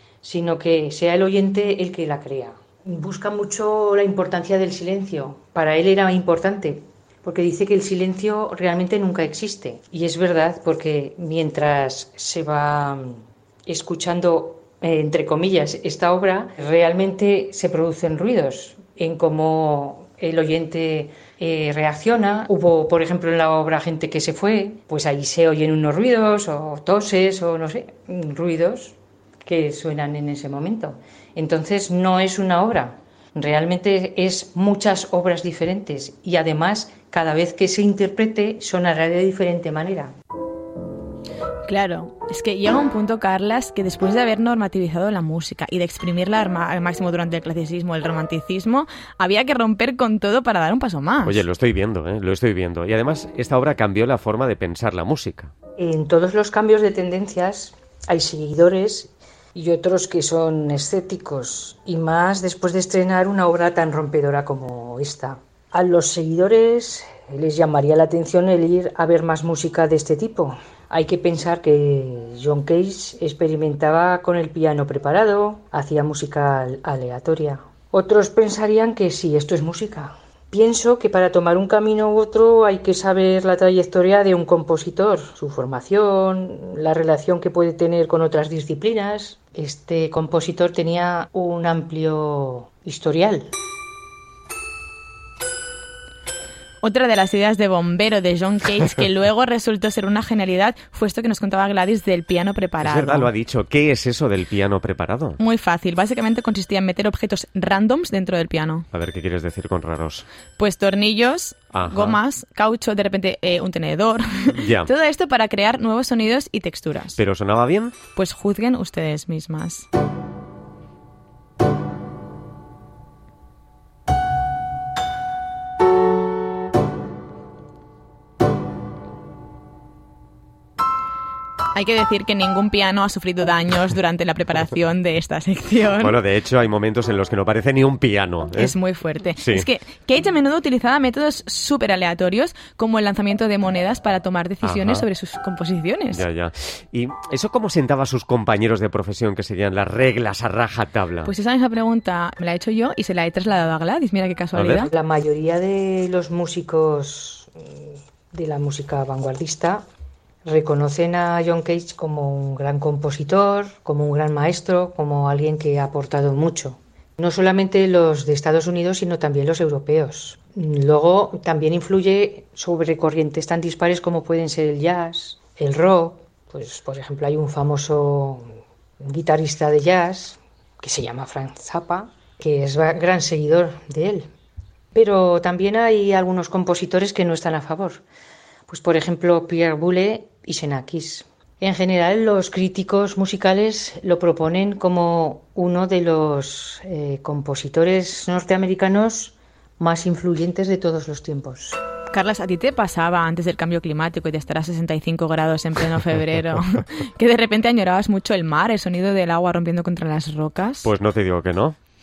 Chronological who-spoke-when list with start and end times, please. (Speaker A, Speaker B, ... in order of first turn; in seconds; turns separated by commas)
Speaker A: 0.2-40.1, Speaker B: 41.7-51.5, Speaker C: 51.2-55.5, Speaker A: 55.8-93.5, Speaker B: 96.8-103.3, Speaker C: 102.8-105.4, Speaker B: 105.4-108.9, Speaker C: 108.9-110.2, Speaker B: 110.6-117.2, Speaker C: 111.7-112.2, Speaker C: 114.5-114.9, Speaker C: 117.2-118.0, Speaker B: 118.1-119.9, Speaker B: 131.7-136.2, Speaker C: 135.9-138.8, Speaker B: 138.5-146.2, Speaker C: 139.4-139.7, Speaker C: 144.6-145.1, Speaker C: 146.1-151.3, Speaker B: 151.2-154.9, Speaker C: 154.6-154.9, Speaker A: 154.9-159.8, Speaker A: 160.5-178.5, Speaker A: 179.0-184.3, Speaker A: 184.9-188.0, Speaker A: 188.7-201.8, Speaker B: 202.1-210.9, Speaker C: 210.8-211.8